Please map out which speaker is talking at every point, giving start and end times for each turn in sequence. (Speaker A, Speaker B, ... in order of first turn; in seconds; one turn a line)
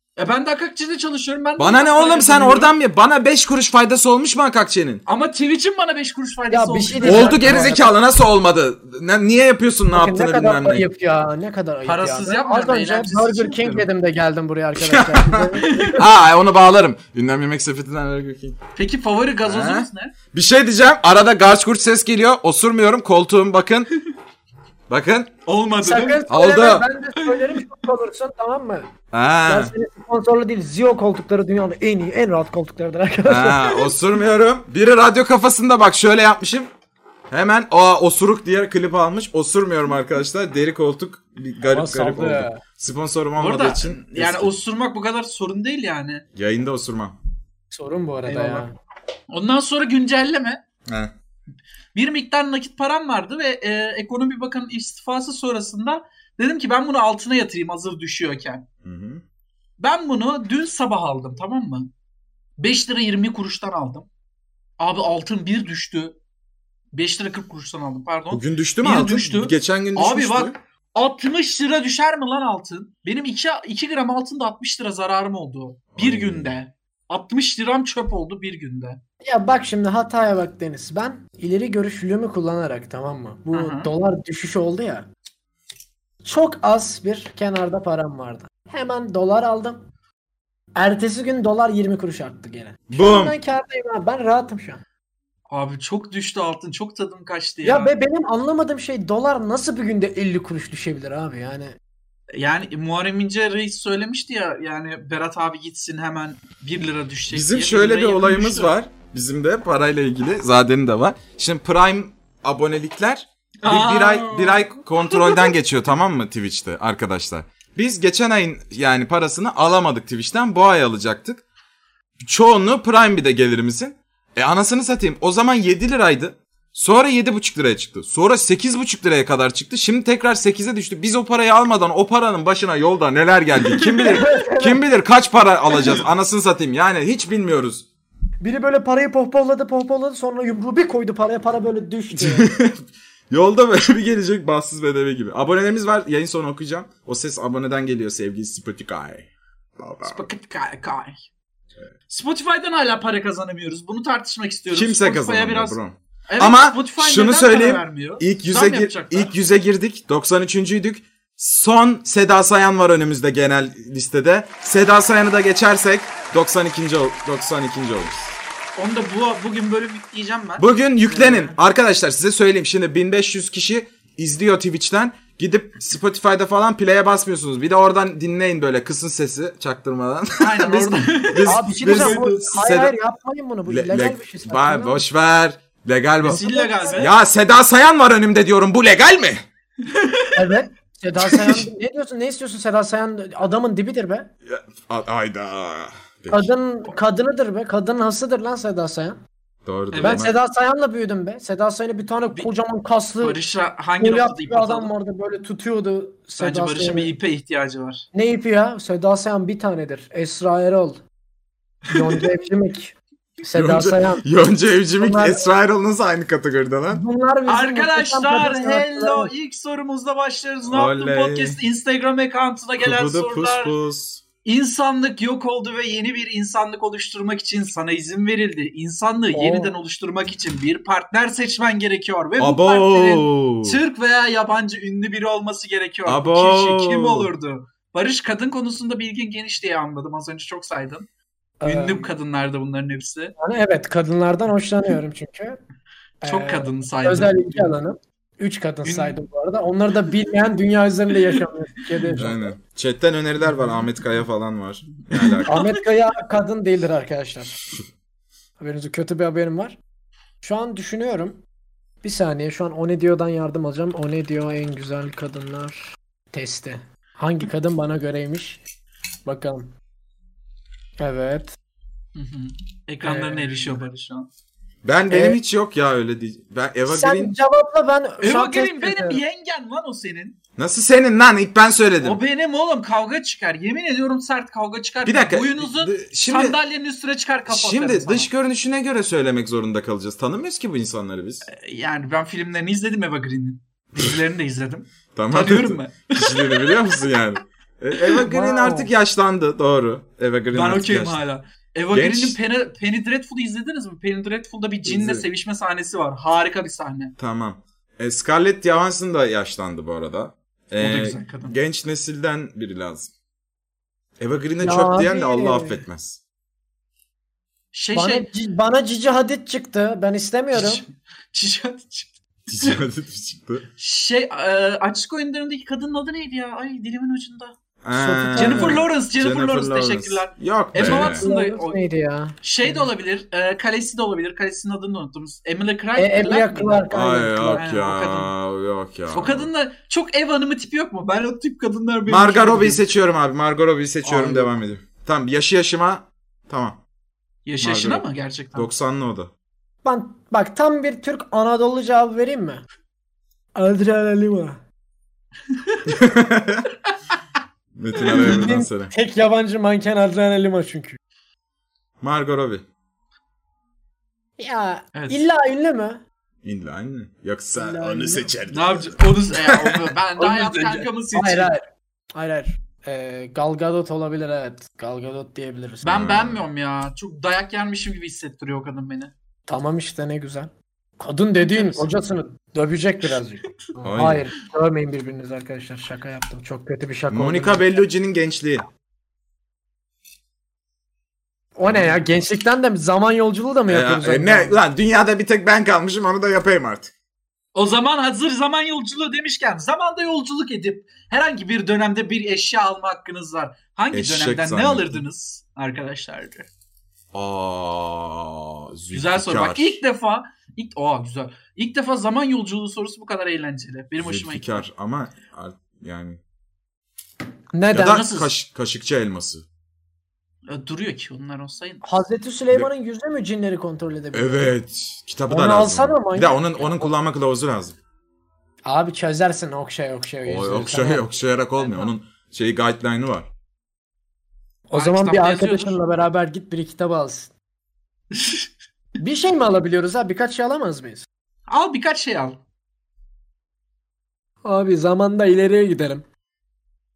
Speaker A: 0.2-2.7
Speaker B: 1.6-5.0
Speaker A: 5.1-7.7
Speaker C: 6.5-7.9
Speaker B: 7.0-10.8
Speaker C: 9.9-16.0
Speaker A: 11.8-13.9
Speaker B: 14.8-18.6
Speaker A: 15.6-16.0
Speaker A: 18.8-20.1
Speaker B: 19.4-23.9
Speaker B: 24.9-25.3
Speaker A: 25.5-26.2
Speaker C: 25.8-28.9
Speaker B: 26.3-26.9
Speaker A: 27.2-27.6
Speaker B: 29.1-29.7
Speaker C: 29.5-33.8
Speaker B: 33.2-36.7
Speaker B: 37.3-44.5
Speaker C: 41.7-42.6
Speaker A: 43.4-46.2
Speaker B: 46.4-47.2
Speaker C: 47.7-48.7
Speaker A: 48.2-48.7
Speaker A: 49.3-50.6
Speaker B: 50.9-51.1
Speaker A: 52.0-58.6
Speaker B: 58.8-59.2
Speaker A: 59.8-61.9
Speaker A: 62.6-64.1
Speaker A: 64.8-66.2
Speaker A: 66.9-79.0
Speaker B: 68.3-70.6
Speaker B: 75.9-76.5
Speaker C: 79.2-85.1
Speaker A: 83.5-83.9
Speaker C: 86.2-89.8
Speaker C: 90.8-94.8
Speaker B: 92.9-93.4
Speaker A: 95.5-97.9
Speaker C: 97.6-101.8
Speaker A: 102.3-108.7
Speaker B: 107.3-121.4
Speaker A: 113.6-115.5
Speaker B: 122.2-137.8
Speaker A: 133.8-134.2
Speaker C: 134.0-134.8
Speaker C: 138.4-142.5
Speaker B: 142.1-150.2
Speaker A: 150.0-151.2
Speaker A: 152.1-159.3
Speaker B: 154.7-168.3
Speaker A: 168.8-171.6
Speaker B: 170.6-182.9
Speaker A: 180.4-182.6
Speaker C: 181.4-185.0
Speaker B: 183.7-189.4
Speaker A: 186.2-187.1
Speaker C: 186.2-187.1
Speaker A: 189.8-190.4
Speaker C: 190.3-194.3
Speaker B: 194.4-196.5
Speaker C: 196.3-199.2
Speaker B: 199.6-200.3
Speaker A: 199.9-200.3
Speaker C: 200.0-203.4
Speaker A: 203.2-204.9
Speaker C: 204.0-207.1
Speaker A: 206.4-208.1
Speaker C: 208.1-211.0
Speaker C: 211.9-214.2
Speaker A: 211.9-212.2
Speaker B: 213.5-217.0
Speaker C: 215.0-215.5
Speaker C: 216.9-219.3
Speaker A: 217.5-223.8
Speaker B: 220.7-221.6
Speaker B: 222.8-224.2
Speaker A: 224.4-241.1
Speaker C: 229.3-229.8
Speaker B: 232.4-233.8
Speaker B: 236.1-237.3
Speaker C: 241.6-242.1
Speaker A: 241.6-243.3
Speaker C: 243.4-245.6
Speaker C: 246.2-252.6
Speaker A: 246.2-247.8
Speaker A: 248.8-249.2
Speaker A: 251.1-251.4
Speaker A: 252.0-252.2
Speaker B: 252.2-255.5
Speaker A: 255.1-255.8
Speaker C: 255.5-257.6
Speaker C: 258.6-259.8
Speaker C: 260.4-261.4
Speaker C: 262.0-268.6
Speaker C: 269.2-269.7
Speaker C: 271.0-271.5
Speaker A: 272.1-274.3
Speaker C: 273.0-273.8
Speaker B: 274.8-277.3
Speaker C: 275.1-275.4
Speaker C: 276.9-279.2
Speaker A: 278.2-280.4
Speaker B: 280.6-282.2
Speaker A: 282.0-288.3
Speaker B: 285.1-286.6
Speaker B: 287.5-291.5
Speaker A: 291.4-296.8
Speaker B: 295.1-301.2
Speaker C: 298.2-298.9
Speaker A: 300.5-307.1
Speaker B: 301.9-302.4
Speaker B: 304.9-305.2
Speaker B: 307.2-313.1
Speaker A: 310.8-311.6
Speaker B: 314.2-316.2
Speaker C: 314.6-315.8
Speaker A: 317.7-318.3
Speaker C: 317.9-320.9
Speaker A: 320.5-322.8
Speaker B: 322.5-323.6
Speaker A: 323.8-327.6
Speaker B: 327.8-331.3
Speaker C: 327.9-328.9
Speaker A: 328.4-331.8
Speaker C: 330.8-332.9
Speaker A: 332.4-336.9
Speaker C: 336.0-337.6
Speaker B: 336.9-339.5
Speaker A: 337.6-338.3
Speaker A: 339.1-342.9
Speaker B: 342.1-346.8
Speaker C: 344.1-344.6
Speaker A: 347.5-348.7
Speaker B: 347.6-349.3
Speaker C: 349.8-352.6
Speaker C: 353.6-354.6
Speaker A: 355.5-355.8
Speaker B: 355.9-356.6
Speaker B: 357.7-358.9
Speaker C: 358.0-361.0
Speaker B: 362.0-362.6
Speaker C: 364.4-366.0
Speaker A: 364.9-365.2
Speaker B: 366.4-369.8
Speaker C: 367.6-368.3
Speaker A: 368.5-371.5
Speaker C: 370.2-375.9
Speaker A: 375.8-379.1
Speaker B: 375.9-376.4
Speaker C: 379.5-387.8
Speaker A: 381.4-381.9
Speaker B: 383.8-384.3
Speaker B: 387.1-388.6
Speaker C: 391.6-394.6
Speaker B: 391.6-392.0
Speaker B: 393.7-396.9
Speaker A: 397.6-406.5
Speaker B: 403.9-405.0
Speaker B: 407.1-409.8
Speaker A: 408.9-414.6
Speaker B: 414.0-416.2
Speaker C: 417.5-418.0
Speaker B: 417.7-419.4
Speaker A: 417.8-418.3
Speaker A: 420.5-421.8
Speaker C: 421.8-424.5
Speaker B: 424.1-427.8
Speaker C: 425.3-426.9
Speaker C: 428.6-431.1
Speaker B: 430.2-433.3
Speaker C: 434.7-437.3
Speaker A: 434.7-435.8
Speaker A: 438.1-438.5
Speaker C: 439.0-441.1
Speaker A: 441.5-442.4
Speaker C: 444.4-446.1